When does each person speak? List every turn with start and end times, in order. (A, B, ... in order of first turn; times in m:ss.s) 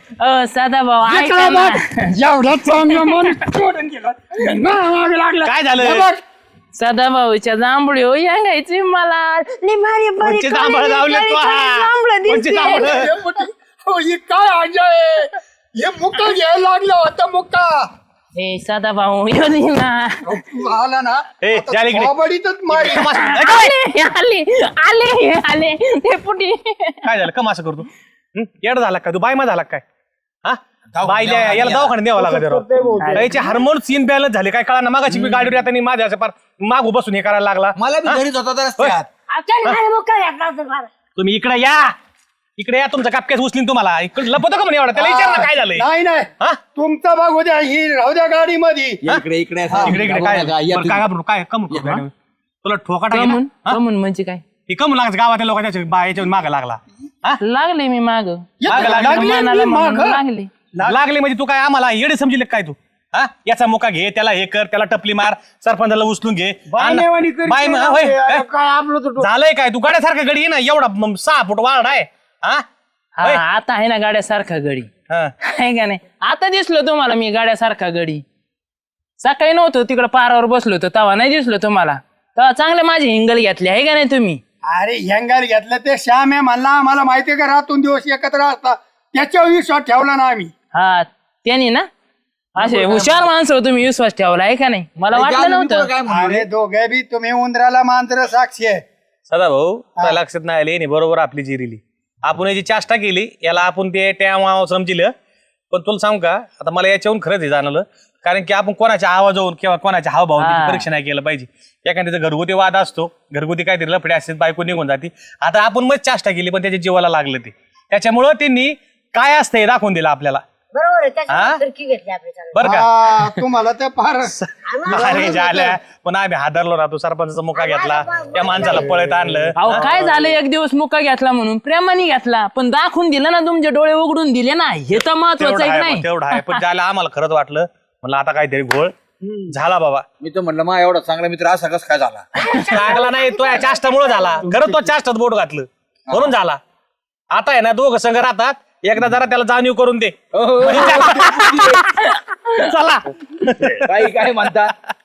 0:00.2-0:02.1 A
0:01.0-0:06.2 B
0:02.8-0:03.3 A
0:05.4-0:06.1 C
0:06.7-0:09.6 A
0:09.7-0:17.8 B
0:10.2-0:13.1 C
0:12.3-0:12.9 A
0:18.3-0:20.3 A
0:20.2-0:23.1 B
0:21.4-0:22.1 C
0:22.7-0:23.7 C
0:22.8-0:27.0 A
0:27.0-0:29.8 C
0:30.4-0:38.2 C
0:30.9-0:33.3 D
0:33.0-0:33.6 A
0:35.1-0:35.6 A
0:37.8-0:39.1 D
0:39.3-0:40.9 E
0:41.2-0:41.9 C
0:42.6-0:45.8 C
0:44.9-0:49.0 B
0:49.0-0:51.1 D
0:49.7-0:50.0 B
0:49.8-0:52.1 C
0:51.7-0:52.0 D
0:52.6-0:53.8 C
0:53.1-0:54.4 A
0:54.7-0:57.4 C
0:57.4-1:00.5 A
0:58.6-1:00.2 B
0:58.7-0:59.4 C
1:00.8-1:08.5 C
1:07.0-1:07.7 B
1:09.2-1:12.6 C
1:13.2-1:14.9 A
1:15.4-1:18.2 A
1:19.2-1:24.4 A
1:24.6-1:30.5 B
1:30.7-1:31.9 A
1:32.6-1:33.3 C
1:32.6-1:35.9 A
1:35.1-1:36.5 D
1:36.0-1:38.8 B
1:39.3-1:45.1 C
1:45.7-2:00.4 C
1:50.4-1:50.8 A
2:00.7-2:02.6 E
2:01.3-2:01.6 C
2:02.5-2:02.9 C
2:02.6-2:04.3 B
2:04.4-2:09.9 C
2:04.6-2:05.6 E
2:04.9-2:05.8 B
2:07.5-2:08.8 E
2:08.8-2:09.3 B
2:09.5-2:16.6 A
2:14.9-2:18.9 C
2:19.5-2:20.0 C
2:20.2-2:22.2 D
2:22.4-2:23.0 A
2:22.6-2:26.6 C
2:27.3-2:31.6 C
2:30.3-2:31.8 D
2:30.7-2:32.4 A
2:32.6-2:34.2 C
2:33.8-2:34.7 D